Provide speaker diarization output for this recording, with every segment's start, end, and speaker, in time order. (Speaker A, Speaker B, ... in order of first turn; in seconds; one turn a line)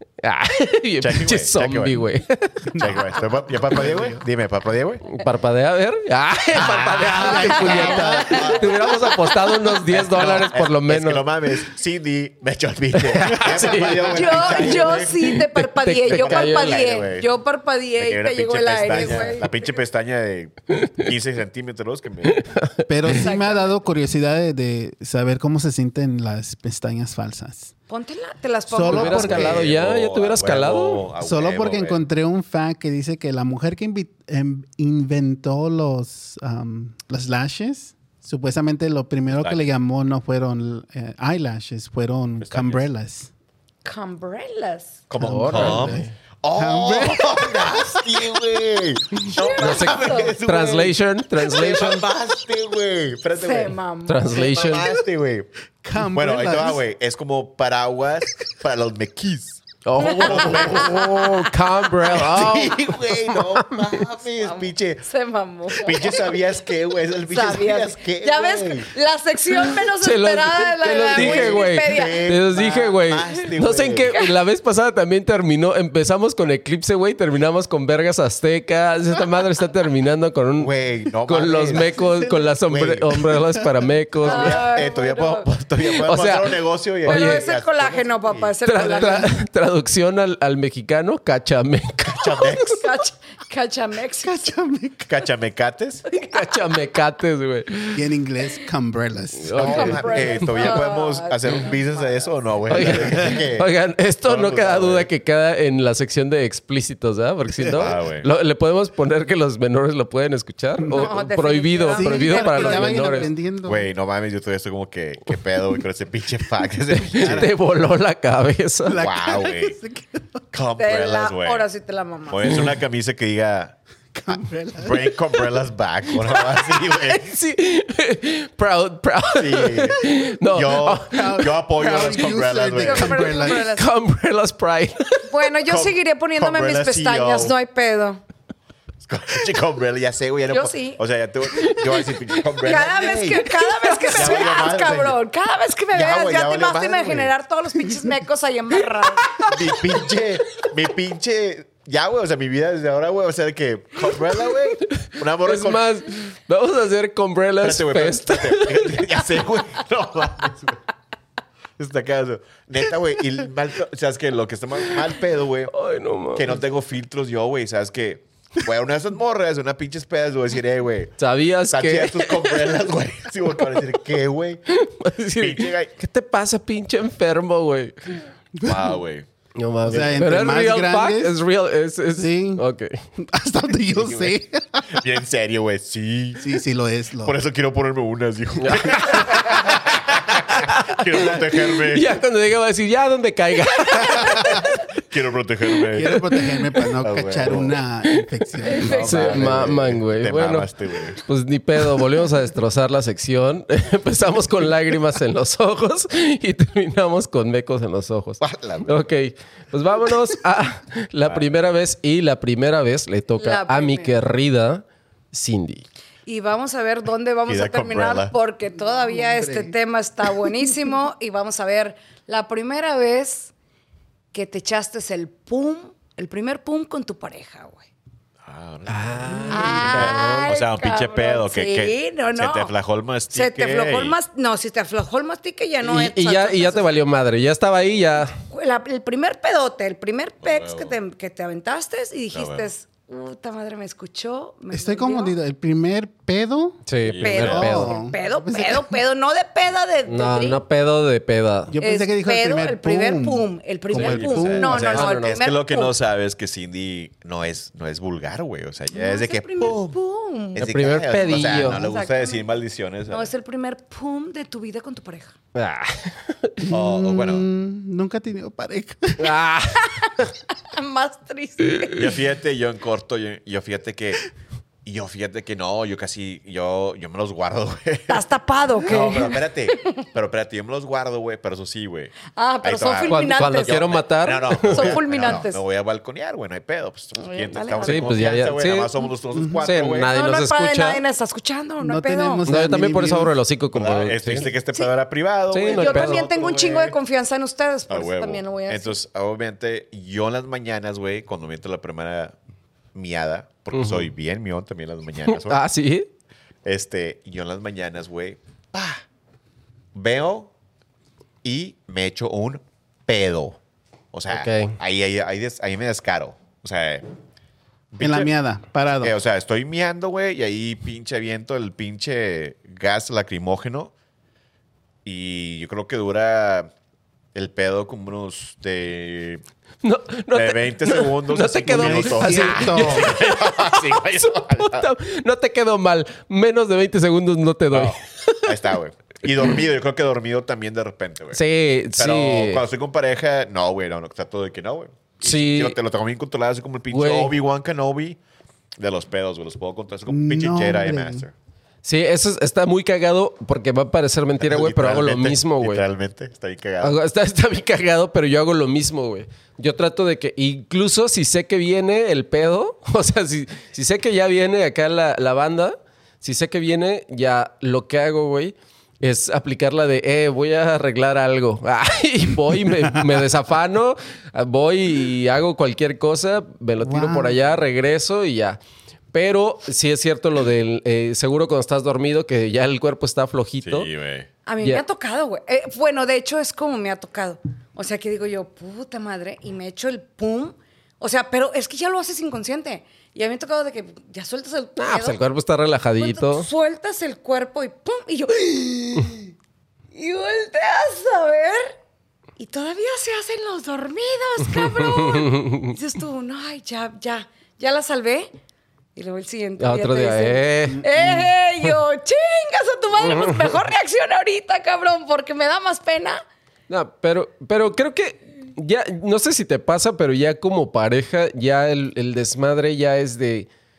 Speaker A: 0.2-3.1
Speaker B: 1.0-2.1
Speaker C: 2.7-4.2
Speaker B: 2.8-5.0
Speaker A: 5.0-11.6
Speaker B: 6.5-9.2
Speaker C: 6.7-8.6
Speaker D: 7.2-9.5
Speaker B: 9.7-15.4
Speaker A: 12.9-16.9
Speaker D: 13.9-19.8
Speaker B: 16.1-17.3
Speaker B: 18.0-22.5
Speaker A: 20.7-21.1
Speaker A: 22.3-22.9
Speaker C: 22.9-27.7
Speaker D: 23.1-23.8
Speaker D: 27.9-29.6
Speaker C: 28.7-29.6
Speaker A: 28.9-31.1
Speaker B: 28.9-32.0
Speaker C: 31.2-43.3
Speaker B: 39.3-39.6
Speaker B: 42.4-42.9
Speaker D: 43.9-45.1
Speaker B: 45.1-53.8
Speaker C: 45.2-48.6
Speaker A: 45.2-46.2
Speaker D: 49.2-50.4
Speaker A: 49.6-52.1
Speaker D: 53.4-54.5
Speaker A: 54.1-54.9
Speaker B: 54.3-55.5
Speaker C: 55.8-56.8
Speaker B: 56.0-61.4
Speaker A: 59.9-64.0
Speaker D: 60.0-61.3
Speaker B: 62.0-65.0
Speaker D: 64.4-66.6
Speaker B: 65.7-68.9
Speaker D: 67.3-72.4
Speaker A: 69.8-80.7
Speaker B: 71.1-74.1
Speaker D: 74.0-74.3
Speaker B: 80.6-83.4
Speaker A: 81.2-84.6
Speaker B: 84.2-88.5
Speaker D: 84.2-85.5
Speaker A: 85.8-87.5
Speaker D: 87.0-89.3
Speaker A: 88.6-92.8
Speaker B: 92.1-92.8
Speaker D: 92.5-94.5
Speaker C: 94.2-95.1
Speaker B: 95.0-96.0
Speaker A: 96.1-98.0
Speaker C: 97.9-100.1
Speaker A: 99.4-100.5
Speaker B: 99.5-103.7
Speaker D: 99.6-102.3
Speaker A: 102.7-113.3
Speaker B: 104.2-105.1
Speaker C: 107.6-107.9
Speaker B: 107.8-108.3
Speaker C: 110.8-111.1
Speaker D: 110.9-113.3
Speaker C: 111.8-113.9
Speaker B: 113.6-117.5
Speaker A: 116.9-119.0
Speaker C: 117.2-117.5
Speaker C: 118.8-120.4
Speaker B: 119.0-119.8
Speaker B: 120.5-121.7
Speaker D: 120.8-122.7
Speaker B: 122.3-123.8
Speaker C: 124.1-125.4
Speaker B: 124.8-127.3
Speaker A: 126.2-131.5
Speaker B: 129.3-133.5
Speaker C: 131.1-133.8
Speaker D: 132.8-133.9
Speaker A: 133.6-135.4
Speaker D: 135.3-138.2
Speaker B: 135.7-137.5
Speaker B: 139.1-143.5
Speaker D: 140.5-141.0
Speaker A: 141.5-142.1
Speaker D: 142.6-149.5
Speaker A: 143.7-144.3
Speaker B: 144.1-145.2
Speaker B: 145.9-147.3
Speaker B: 149.4-155.9
Speaker A: 154.9-159.1
Speaker B: 157.6-160.8
Speaker B: 161.8-165.7
Speaker A: 165.7-166.6
Speaker B: 166.3-174.6
Speaker A: 171.2-172.9
Speaker A: 173.6-173.8
Speaker A: 174.7-178.2
Speaker B: 175.4-175.9
Speaker C: 178.6-178.9
Speaker B: 178.6-179.3
Speaker A: 179.6-183.0
Speaker C: 179.9-181.4
Speaker B: 179.9-180.2
Speaker C: 182.2-182.6
Speaker C: 183.2-185.0
Speaker B: 183.9-184.4
Speaker B: 184.9-186.6
Speaker C: 186.4-187.4
Speaker B: 187.2-192.2
Speaker A: 188.6-189.8
Speaker C: 189.1-189.5
Speaker A: 190.5-194.7
Speaker C: 194.1-194.6
Speaker B: 194.2-196.2
Speaker C: 195.9-199.4
Speaker A: 196.1-196.9
Speaker B: 197.0-197.8
Speaker D: 198.6-199.5
Speaker B: 198.8-201.2
Speaker A: 198.9-215.9
Speaker B: 208.4-209.0
Speaker D: 213.4-214.1
Speaker D: 216.3-223.5
Speaker B: 217.5-218.3
Speaker C: 219.3-219.7
Speaker D: 224.3-227.9
Speaker B: 228.4-234.2
Speaker A: 228.9-230.5
Speaker D: 229.5-232.8
Speaker D: 233.3-237.0
Speaker A: 235.8-238.4
Speaker D: 238.5-245.4
Speaker B: 240.4-241.0
Speaker B: 242.3-242.7
Speaker C: 244.7-246.8
Speaker A: 246.9-247.9
Speaker B: 247.0-247.9
Speaker D: 247.2-250.6
Speaker C: 247.3-248.9
Speaker A: 250.1-251.7
Speaker C: 251.7-254.8
Speaker D: 251.8-256.0
Speaker B: 253.9-260.0
Speaker A: 254.4-255.4
Speaker D: 258.9-262.5
Speaker B: 260.6-263.3
Speaker A: 260.6-261.8
Speaker D: 263.1-265.4
Speaker A: 265.6-266.6
Speaker C: 266.6-269.3
Speaker B: 266.7-267.5
Speaker A: 269.2-269.9
Speaker D: 269.8-272.1
Speaker B: 271.9-274.2
Speaker B: 274.9-278.2
Speaker D: 278.1-280.1
Speaker B: 278.8-290.1
Speaker D: 282.3-284.0
Speaker A: 283.1-285.0
Speaker D: 284.6-285.6
Speaker D: 287.2-288.2
Speaker A: 287.8-288.9
Speaker A: 289.6-291.0
Speaker D: 290.1-292.4
Speaker C: 291.8-293.4
Speaker A: 292.5-294.5
Speaker B: 293.7-297.0
Speaker A: 295.5-296.3
Speaker D: 295.7-299.0
Speaker B: 297.9-302.4
Speaker B: 302.9-305.6
Speaker A: 303.7-304.1
Speaker A: 305.3-306.1
Speaker B: 306.6-309.0
Speaker B: 309.9-310.5
Speaker B: 311.4-313.6
Speaker B: 314.1-317.1
Speaker A: 314.3-314.8
Speaker B: 317.9-318.3
Speaker C: 318.0-319.1
Speaker B: 319.0-323.9
Speaker B: 325.1-326.7
Speaker B: 327.3-329.4
Speaker A: 329.8-338.6
Speaker B: 330.3-334.9
Speaker C: 331.6-333.2
Speaker B: 337.7-341.4
Speaker A: 341.3-342.6
Speaker B: 342.0-348.2
Speaker A: 345.2-345.8
Speaker A: 346.9-347.3
Speaker B: 348.8-351.3
Speaker C: 350.1-351.2
Speaker A: 351.8-355.8
Speaker B: 354.4-357.0
Speaker A: 356.8-378.6
Speaker C: 376.8-377.4
Speaker A: 379.1-383.9
Speaker B: 383.6-384.3
Speaker D: 384.5-395.2
Speaker A: 394.8-396.5
Speaker D: 396.0-399.3
Speaker D: 399.9-401.8
Speaker D: 402.4-408.3
Speaker A: 404.5-405.8
Speaker D: 409.0-416.2
Speaker A: 409.6-411.7
Speaker A: 413.0-413.5
Speaker A: 416.7-423.5